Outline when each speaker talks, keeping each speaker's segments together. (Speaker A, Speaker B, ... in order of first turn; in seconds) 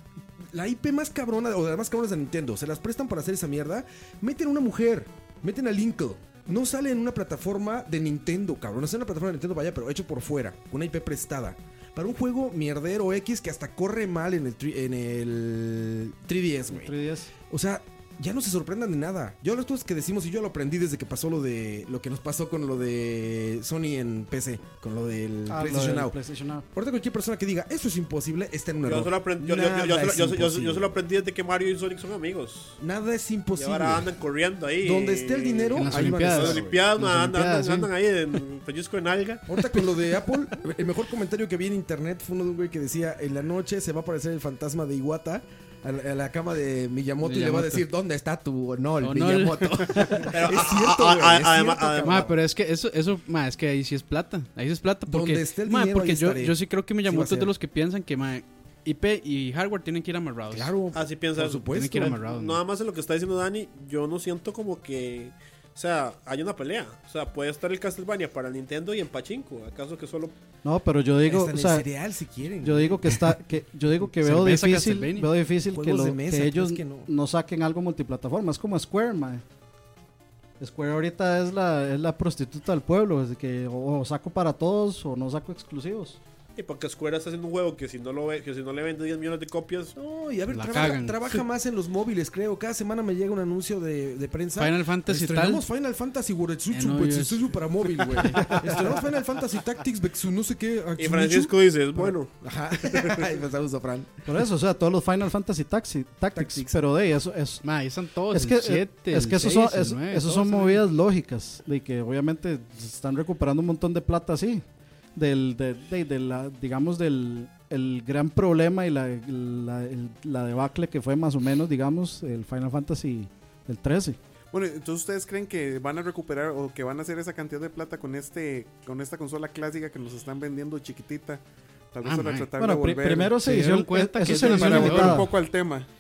Speaker A: 0.5-16.9, 17.4-26.1, 26.7-30.9, 32.8-34.1, 34.8-36.9, 39.5-52.4, 55.1-57.5, 60.5-62.2, 71.3-73.3, 75.7-77.1, 90.0-104.2, 106.3-106.7
Speaker B: 16.7-17.3, 25.5-26.7, 70.6-71.9, 72.6-79.4, 80.6-86.2, 104.3-107.7, 108.3-114.6, 115.2-124.2, 132.6-135.3
Speaker C: 28.8-32.8, 33.6-39.5, 50.1-52.3, 60.9-70.3, 86.6-90.0, 101.0-103.3
Speaker D: 35.7-37.9, 47.2-47.9, 49.0-50.3, 52.0-60.8, 61.7-62.6, 74.1-75.3, 90.5-91.3, 94.6-95.7, 96.7-99.0, 107.6-110.8, 132.1-132.5, 133.4-135.3
Speaker E: 124.5-133.4, 134.3-135.9